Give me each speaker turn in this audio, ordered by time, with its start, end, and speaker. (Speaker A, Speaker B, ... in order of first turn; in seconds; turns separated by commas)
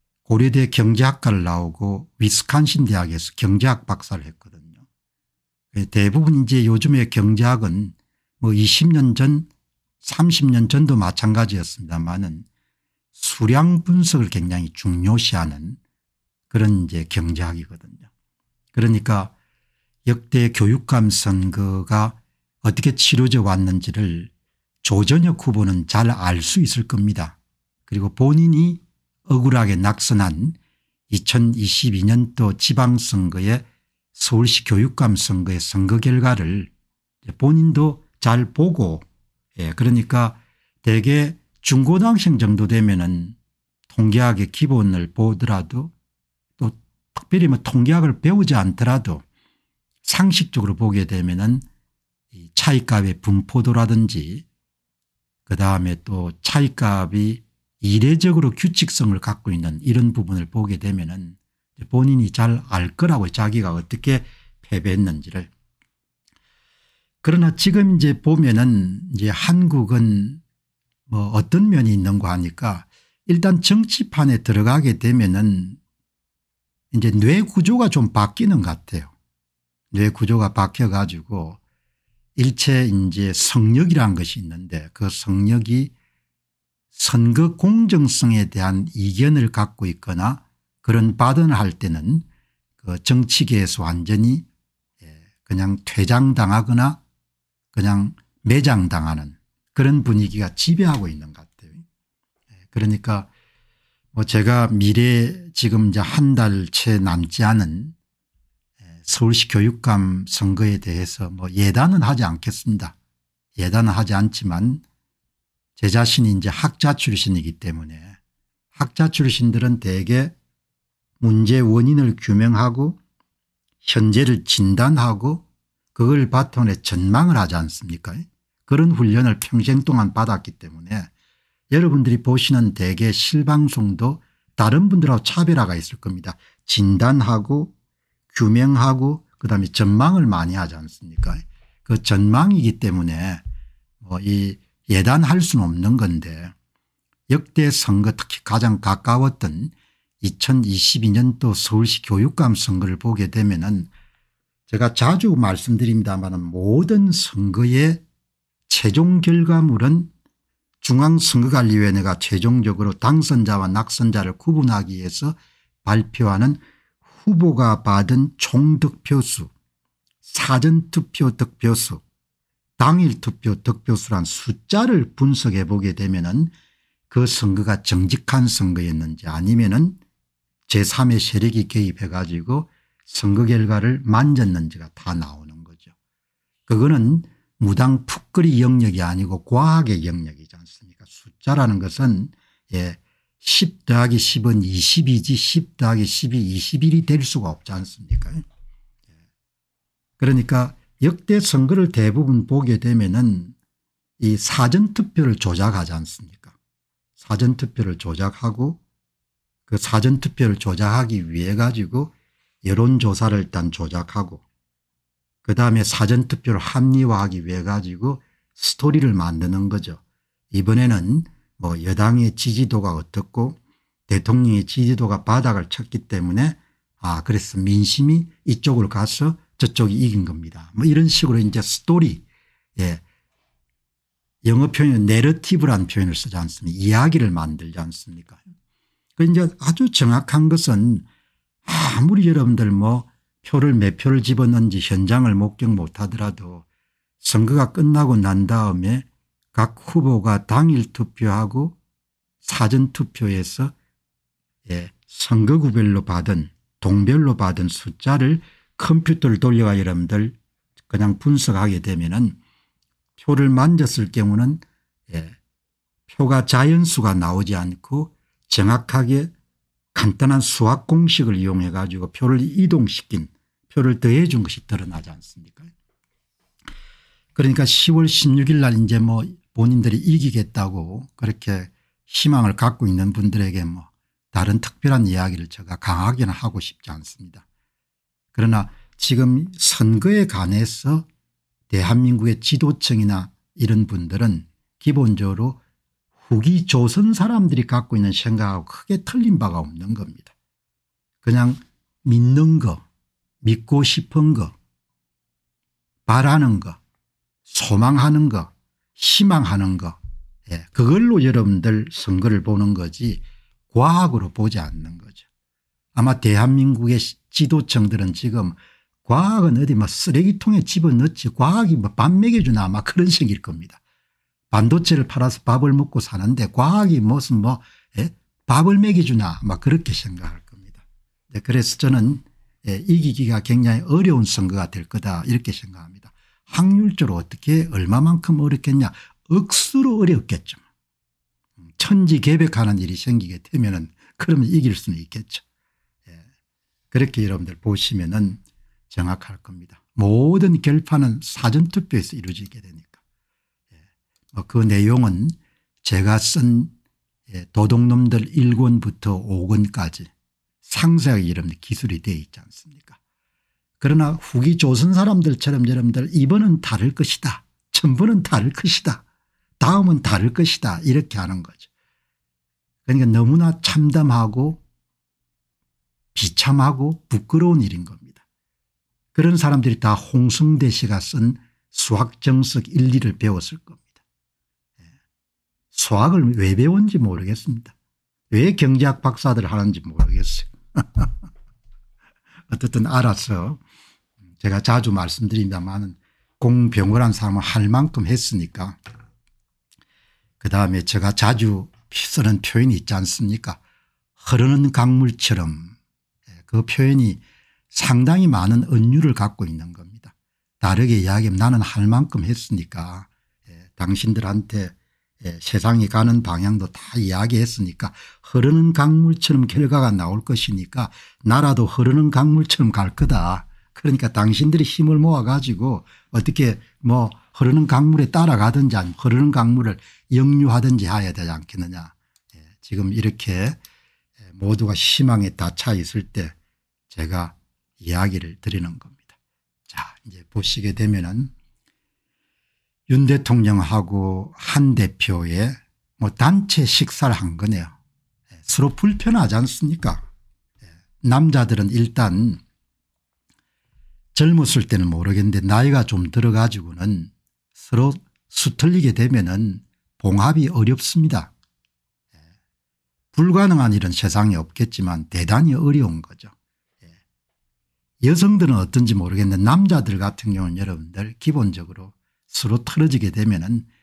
Speaker A: 0.2-4.8, Speaker A: 5.7-9.5, Speaker A: 10.0-12.4, Speaker A: 13.1-15.8, Speaker A: 16.5-18.1, Speaker A: 18.7-19.3, Speaker A: 20.1-24.3, Speaker A: 24.8-30.6, Speaker A: 31.1-36.7, Speaker A: 37.2-39.0, Speaker A: 39.5-43.3, Speaker A: 43.9-45.9, Speaker A: 46.6-49.2, Speaker A: 50.0-51.6, Speaker A: 52.3-54.4, Speaker A: 55.5-65.5, Speaker A: 67.2-70.4, Speaker A: 71.1-75.8, Speaker A: 76.9-79.1, Speaker A: 79.9-81.6, Speaker A: 82.3-85.9, Speaker A: 86.9-92.2, Speaker A: 92.8-94.4, Speaker A: 95.0-97.0, Speaker A: 97.7-101.8, Speaker A: 102.7-103.3, Speaker A: 104.1-107.9, Speaker A: 109.0-113.0, Speaker A: 113.6-114.8, Speaker A: 115.8-118.2, Speaker A: 118.7-120.3, Speaker A: 121.2-123.0, Speaker A: 123.8-131.1, Speaker A: 131.7-137.7, Speaker A: 138.3-143.4, Speaker A: 144.0-146.5, Speaker A: 147.3-153.9, Speaker A: 154.7-158.0, Speaker A: 158.7-160.1, Speaker A: 160.8-169.5, Speaker A: 170.2-172.0, Speaker A: 172.8-176.5, Speaker A: 177.1-180.0, Speaker A: 180.7-185.9, Speaker A: 186.7-198.4, Speaker A: 200.2-203.5, Speaker A: 204.2-206.5, Speaker A: 207.2-208.8, Speaker A: 209.7-212.1, Speaker A: 212.6-214.4, Speaker A: 215.4-232.2, Speaker A: 232.8-233.0, Speaker A: 234.4-238.4, Speaker A: 239.2-241.1, Speaker A: 241.6-246.6, Speaker A: 247.2-251.8, Speaker A: 252.4-253.7, Speaker A: 254.7-260.3, Speaker A: 260.9-262.4, Speaker A: 263.2-265.4, Speaker A: 266.1-269.3, Speaker A: 269.9-275.7, Speaker A: 277.4-287.4, Speaker A: 288.3-291.1, Speaker A: 291.7-295.6, Speaker A: 296.2-300.3, Speaker A: 301.2-302.8, Speaker A: 303.4-304.5, Speaker A: 306.1-306.8, Speaker A: 307.4-310.0, Speaker A: 310.5-315.2, Speaker A: 315.9-323.8, Speaker A: 324.5-340.6, Speaker A: 341.8-345.4, Speaker A: 346.9-353.0, Speaker A: 354.3-356.7, Speaker A: 357.3-360.1, Speaker A: 360.6-363.0, Speaker A: 363.8-369.0, Speaker A: 369.6-371.7, Speaker A: 372.9-374.6, Speaker A: 376.1-378.2, Speaker A: 379.1-384.0, Speaker A: 385.7-387.7, Speaker A: 388.3-391.1, Speaker A: 392.5-393.6, Speaker A: 394.4-398.8, Speaker A: 400.4-403.6, Speaker A: 404.2-405.7, Speaker A: 406.4-413.1, Speaker A: 413.6-431.9, Speaker A: 432.6-433.6, Speaker A: 434.3-436.3, Speaker A: 436.9-439.1, Speaker A: 439.7-441.3, Speaker A: 442.9-447.7, Speaker A: 448.4-450.0, Speaker A: 451.0-452.4, Speaker A: 454.1-461.3, Speaker A: 463.1-466.3, Speaker A: 468.0-473.6